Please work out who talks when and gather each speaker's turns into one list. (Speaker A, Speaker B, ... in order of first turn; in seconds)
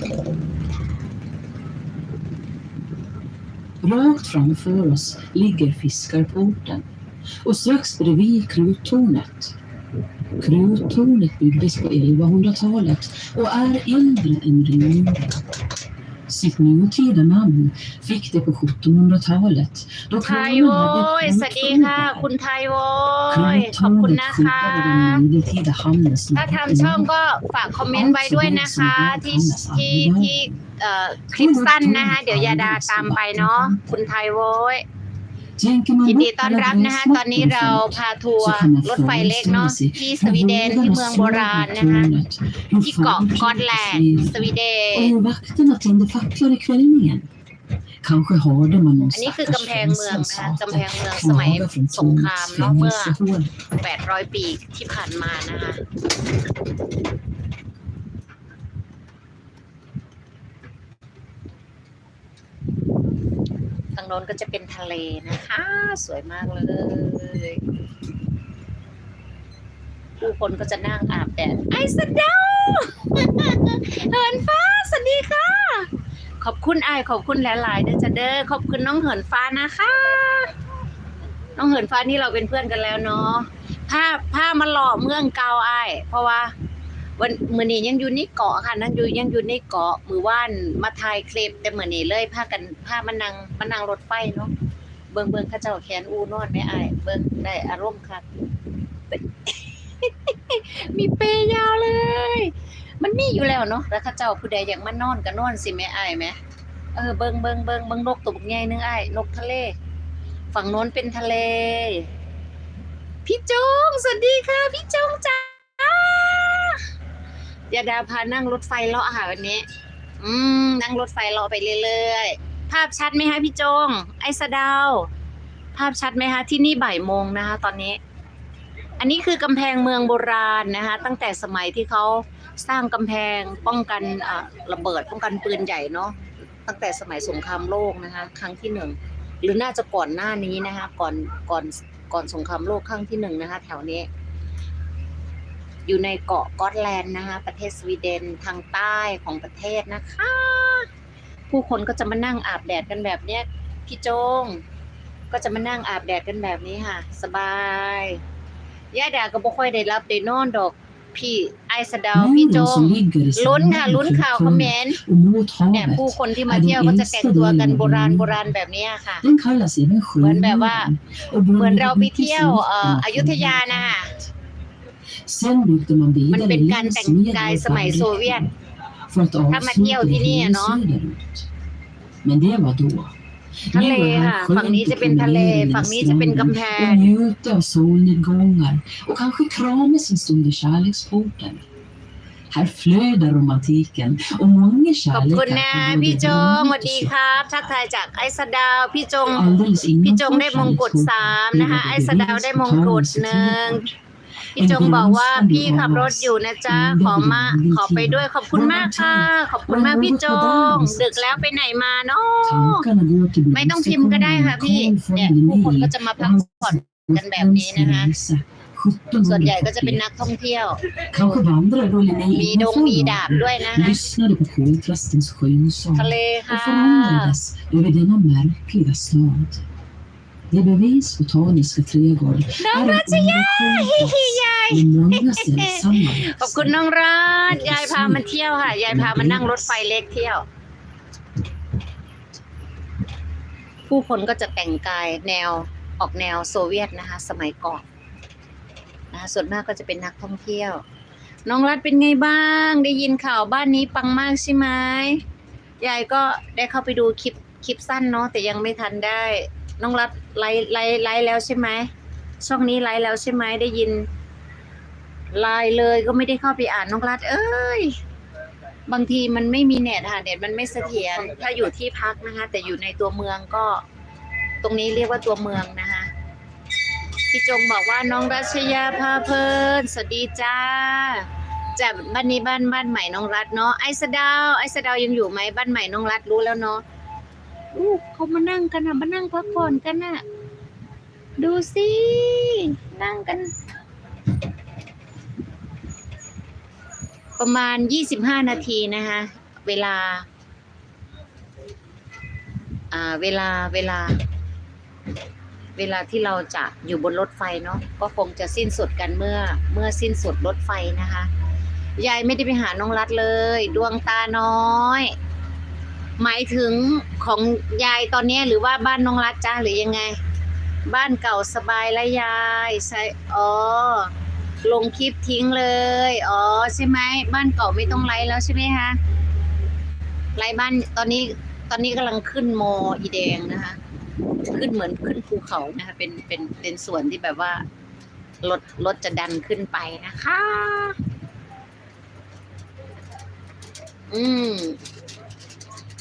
Speaker A: 3.8-6.9, 7.4-9.6, 10.4-15.5, 16.3-22.3, 23.3-27.1, 27.9-30.6, 31.3-34.0, 35.6-47.3, 48.0-53.6, 162.1-168.4, 169.2-174.3, 175.2-178.5, 179.1-181.5, 182.2-183.2, 183.7-191.7, 192.5-197.7, 199.3-204.0, 204.6-211.5, 212.4-220.1, 221.1-229.6, 230.5-236.8, 237.5-239.8
Speaker B: 20.2-25.2, 26.4-34.9, 36.0-42.1, 42.8-45.1, 49.1-53.2, 53.8-55.8, 64.0-67.6, 70.2-75.9, 76.4-80.5, 81.6-86.5, 87.2-94.5, 95.1-98.2, 99.1-106.4, 107.0-109.8, 110.5-112.1, 113.3-116.8, 117.7-119.7, 120.2-125.1, 125.8-128.0, 129.0-136.2, 136.7-144.1, 145.9-150.9, 151.5-154.6, 155.3-158.2, 158.9-165.0, 165.7-169.2, 170.2-170.9, 171.6-174.1, 176.3-178.5, 179.5-180.8, 183.7-187.1, 195.1-199.5, 200.0-203.9, 204.6-212.9, 213.5-218.1, 219.2-220.8, 222.3-224.0, 225.9-227.4, 232.6-240.5, 243.9-247.8, 249.1-250.8, 251.5-255.2, 255.8-261.9, 262.4-264.1, 265.3-268.0, 268.9-273.8, 274.6-276.1, 277.3-286.8, 287.7-290.2, 291.4-293.5, 297.4-300.3, 302.9-304.2, 305.8-311.3, 312.0-315.1, 316.2-320.2, 320.9-324.1, 324.6-329.0, 330.4-333.8, 334.5-337.6, 338.4-341.0, 344.1-344.8